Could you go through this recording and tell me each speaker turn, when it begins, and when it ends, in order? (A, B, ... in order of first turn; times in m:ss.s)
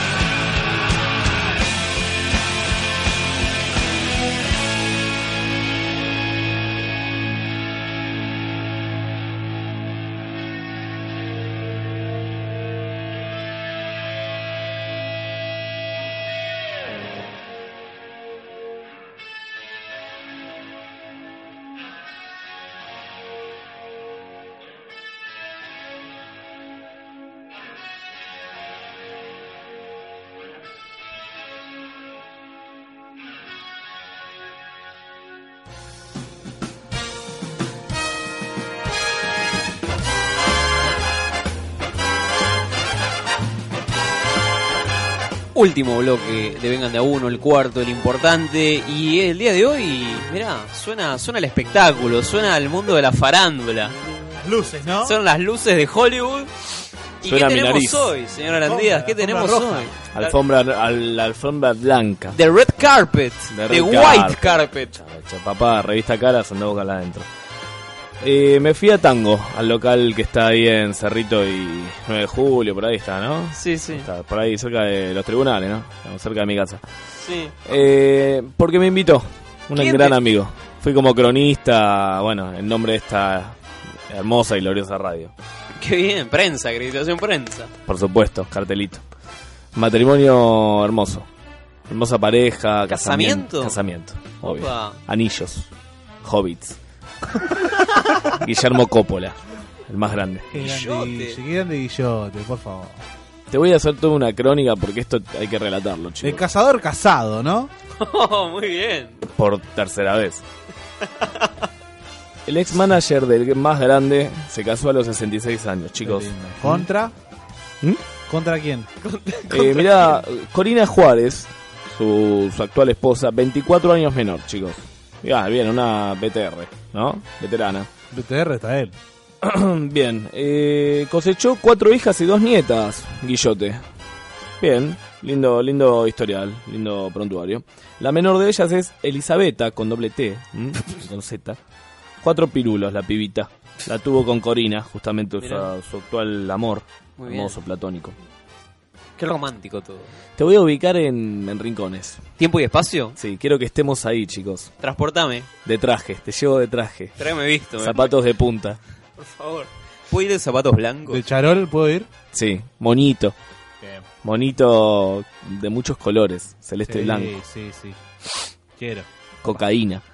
0:45.5-0:54.0 A
0:54.4-0:55.2 B
0:55.0-0:56.5 A
0:57.2-1:00.4 A
0:57.2-0:58.2 C
0:58.6-0:59.9 B
1:00.1-1:02.4 C
1:02.3-1:05.0 A
1:03.5-1:07.3 C
1:08.2-1:16.8 C
1:13.5-1:14.1 A
1:17.2-1:17.6 A
1:17.6-1:25.3 C
1:19.8-1:20.2 A
1:25.8-1:27.7 A
1:27.8-1:29.0 C
1:29.7-1:31.3 C
1:31.9-1:35.7 C
1:32.9-1:33.8 A
1:34.4-1:35.0 A
1:36.2-1:36.8 C
1:38.3-1:40.6 C
1:40.5-1:43.0 B
1:40.6-1:41.4 A
1:43.5-1:46.4 C
1:46.2-1:47.7 B
1:48.0-1:49.2 A
1:49.2-1:50.4 C
1:51.2-1:51.5 A
1:52.4-1:56.9 C
1:56.0-1:57.1 B
1:58.3-1:58.9 B
1:59.0-2:00.2 A
1:59.5-2:07.9 C
2:08.1-2:08.9 B
2:09.4-2:13.8 C
2:14.6-2:21.6 C
2:22.2-2:28.1 C
2:25.4-2:25.7 A
2:27.2-2:27.6 A
2:29.2-2:30.2 A
2:30.4-2:32.2 C
2:32.4-2:33.2 A
2:33.2-2:34.7 C
2:34.8-2:35.5 A
2:35.6-2:38.8 C
2:37.2-2:38.1 A
2:39.2-2:41.2 A
2:41.1-2:42.1 B
2:42.3-2:43.3 C
2:43.8-2:44.0 B
2:44.2-2:47.4 C
2:46.8-2:48.0 B
2:48.8-2:49.1 B
2:49.4-2:50.0 C